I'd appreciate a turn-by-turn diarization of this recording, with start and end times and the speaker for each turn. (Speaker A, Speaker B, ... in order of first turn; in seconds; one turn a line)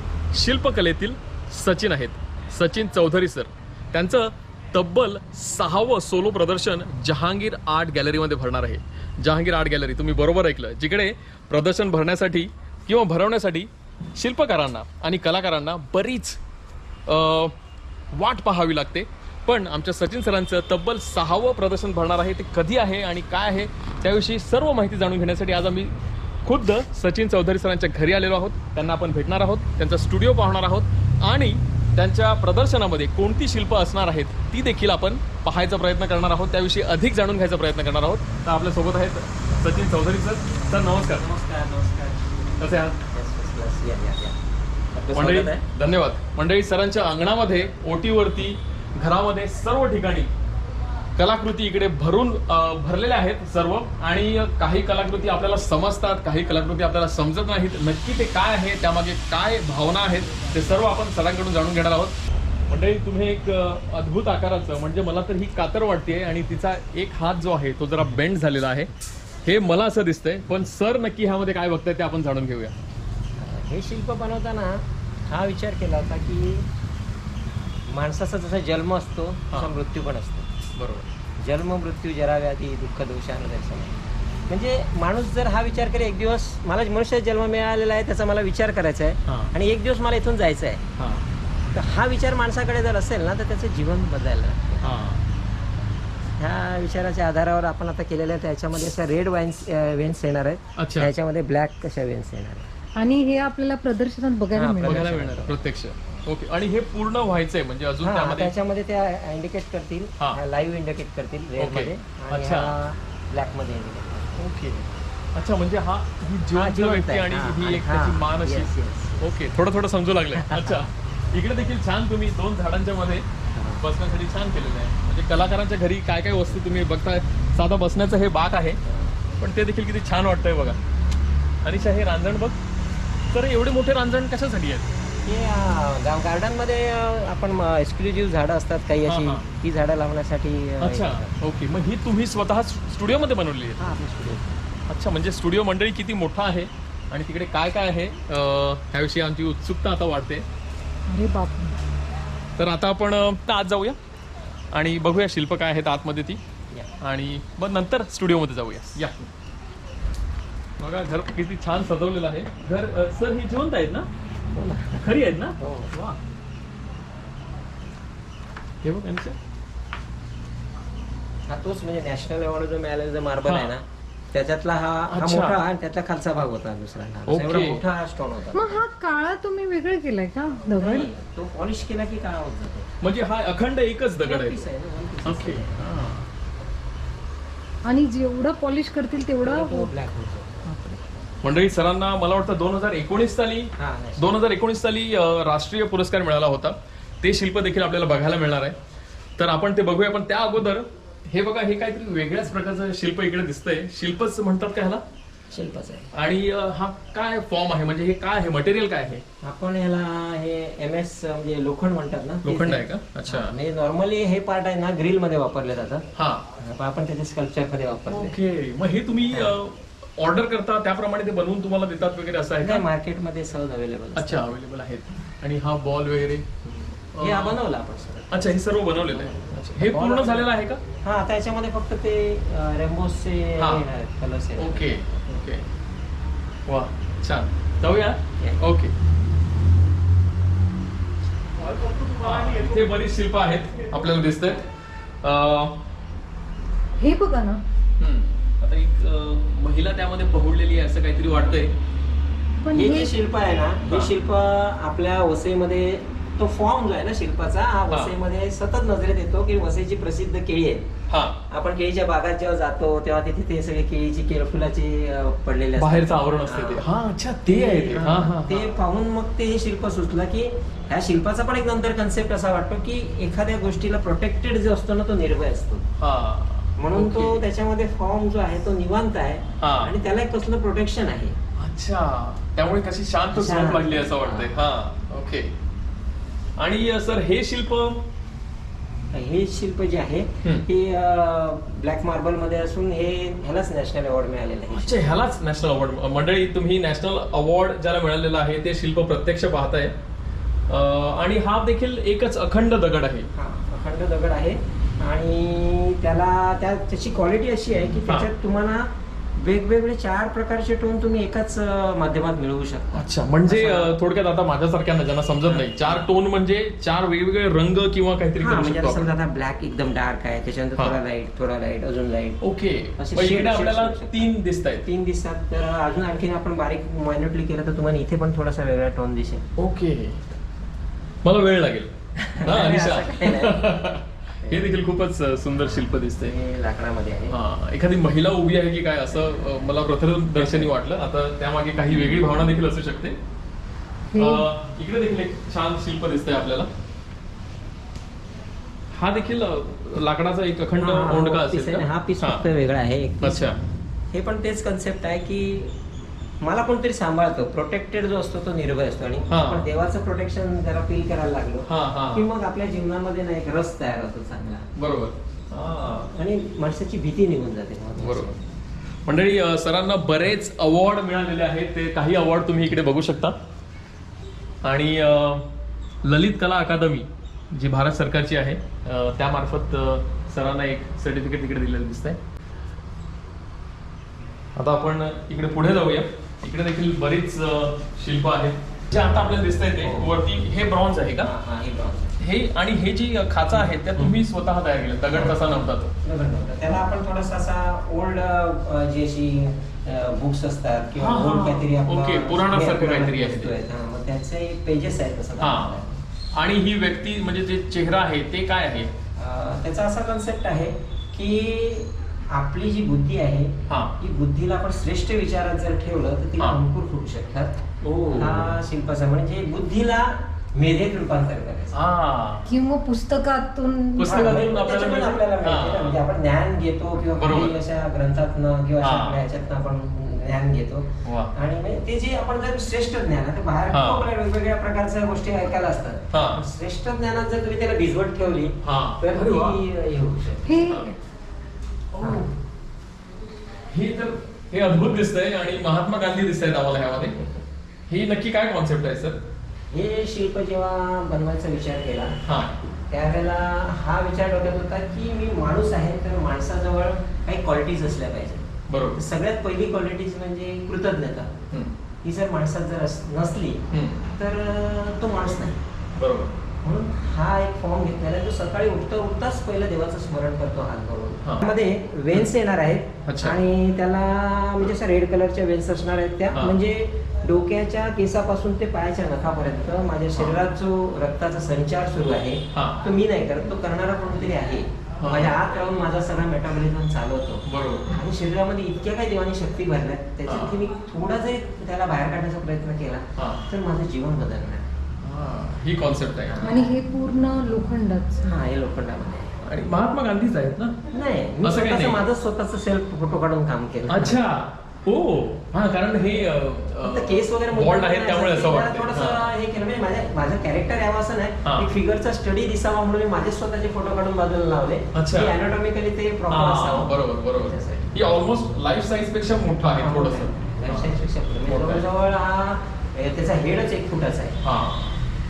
Speaker A: 0.3-16.4
Speaker A: 17.1-17.6
Speaker A: 18.1-41.3
Speaker B: 40.8-44.4
Speaker A: 42.6-43.0
Speaker B: 45.0-45.6
Speaker A: 45.1-50.3
Speaker A: 51.2-62.2
Speaker A: 62.7-68.9
Speaker A: 69.5-72.8
Speaker B: 73.4-76.7
Speaker B: 77.9-80.5
Speaker A: 80.8-81.1
Speaker B: 81.4-90.9
Speaker A: 89.3-89.5
Speaker A: 91.0-91.3
Speaker B: 91.7-95.0
Speaker A: 94.8-95.2
Speaker B: 96.4-102.7
Speaker A: 100.8-101.1
Speaker C: 103.0-105.1
Speaker B: 104.5-105.6
Speaker A: 104.8-108.5
Speaker B: 108.0-114.4
Speaker A: 111.6-112.8
Speaker A: 114.4-128.8
Speaker B: 116.5-119.4
Speaker B: 120.3-120.9
Speaker B: 123.5-123.8
Speaker B: 128.8-129.2
Speaker A: 129.4-130.8
Speaker A: 131.6-132.6
Speaker A: 133.3-134.9
Speaker B: 135.2-141.4
Speaker A: 139.1-139.5
Speaker A: 140.8-144.3
Speaker B: 143.8-144.6
Speaker A: 144.9-150.4
Speaker C: 151.1-151.8
Speaker A: 152.6-154.0
Speaker A: 154.7-156.4
Speaker A: 157.0-159.3
Speaker A: 160.8-164.1
Speaker B: 164.5-165.9
Speaker A: 165.0-166.2
Speaker A: 168.8-169.4
Speaker B: 171.5-178.8
Speaker A: 173.5-173.7
Speaker A: 175.1-175.6
Speaker A: 177.3-177.8
Speaker C: 178.5-181.1
Speaker B: 180.8-182.9
Speaker A: 183.0-184.6
Speaker B: 184.2-185.8
Speaker A: 185.2-186.3
Speaker C: 187.8-189.9
Speaker B: 189.4-190.7
Speaker A: 191.4-198.8
Speaker B: 193.8-194.2
Speaker A: 199.4-205.0
Speaker B: 205.5-206.1
Speaker A: 206.1-209.2
Speaker B: 209.4-218.4
Speaker A: 212.4-213.6
Speaker A: 216.2-216.5
Speaker A: 218.1-222.8
Speaker B: 219.3-219.6
Speaker B: 222.6-224.6
Speaker A: 224.2-227.6
Speaker B: 226.7-230.5
Speaker A: 228.3-230.8
Speaker B: 231.0-235.4
Speaker A: 234.6-235.7
Speaker A: 236.7-238.9
Speaker A: 241.6-244.7
Speaker A: 245.2-245.8
Speaker C: 247.0-247.6
Speaker A: 248.0-251.8
Speaker C: 252.6-253.2
Speaker B: 252.7-260.9
Speaker A: 261.1-261.4
Speaker B: 261.5-275.9
Speaker A: 265.8-268.7
Speaker A: 276.0-277.4
Speaker B: 276.8-281.4
Speaker A: 279.6-279.9
Speaker A: 281.6-285.5
Speaker B: 283.3-284.6
Speaker A: 286.6-288.1
Speaker B: 289.1-295.0
Speaker A: 294.7-300.0
Speaker A: 300.7-303.3
Speaker B: 303.4-313.9
Speaker A: 312.9-319.1
Speaker B: 315.4-316.0
Speaker B: 318.4-322.4
Speaker A: 322.4-324.9
Speaker B: 323.0-324.3
Speaker B: 324.9-329.5
Speaker A: 329.6-330.3
Speaker A: 331.2-336.3
Speaker B: 332.2-333.7
Speaker B: 335.7-337.4
Speaker A: 337.3-343.2
Speaker B: 340.3-340.7
Speaker C: 344.1-344.4
Speaker A: 344.2-346.7
Speaker A: 348.9-352.5
Speaker B: 350.8-353.6
Speaker A: 353.2-353.6
Speaker B: 354.1-355.8
Speaker B: 356.4-364.7
Speaker A: 359.3-359.7
Speaker A: 361.7-362.3
Speaker A: 364.8-366.1
Speaker B: 366.1-368.4
Speaker A: 368.0-368.4
Speaker A: 369.1-373.4
Speaker A: 374.6-375.5
Speaker A: 376.0-382.2
Speaker A: 384.6-391.3
Speaker B: 389.8-390.2
Speaker B: 391.2-392.2
Speaker A: 392.2-395.9
Speaker B: 393.5-394.1
Speaker B: 395.1-405.9
Speaker A: 401.0-403.6
Speaker A: 405.4-409.0
Speaker B: 409.1-421.7
Speaker A: 413.7-414.0
Speaker A: 417.8-418.6
Speaker A: 421.7-422.5
Speaker C: 422.5-424.4
Speaker A: 424.0-426.0
Speaker B: 424.1-440.6
Speaker A: 427.2-427.6
Speaker A: 428.8-429.2
Speaker A: 431.0-431.3
Speaker A: 433.7-434.1
Speaker A: 436.1-436.4
Speaker A: 438.6-439.6
Speaker C: 440.5-440.9
Speaker A: 440.6-441.0
Speaker A: 441.9-442.3
Speaker B: 442.0-442.3
Speaker A: 443.7-447.3
Speaker A: 447.9-449.2
Speaker B: 449.7-461.4
Speaker A: 452.2-452.6
Speaker A: 458.7-459.0
Speaker A: 461.5-461.8
Speaker B: 462.0-465.6
Speaker A: 463.7-464.0
Speaker A: 466.0-466.4
Speaker B: 466.6-494.7
Speaker A: 473.1-473.4
Speaker A: 482.5-482.8
Speaker A: 485.0-485.4
Speaker A: 487.5-487.9
Speaker A: 490.2-490.6
Speaker A: 493.2-493.4
Speaker A: 495.0-496.5
Speaker B: 496.2-496.7
Speaker C: 496.4-498.3
Speaker B: 498.2-499.4
Speaker A: 499.4-500.8
Speaker B: 500.9-504.2
Speaker A: 501.4-502.0
Speaker A: 503.9-509.3
Speaker B: 506.8-517.9
Speaker A: 511.4-511.7
Speaker A: 514.9-515.4
Speaker A: 516.3-520.9
Speaker B: 519.8-524.4
Speaker A: 521.5-521.9
Speaker A: 524.4-525.0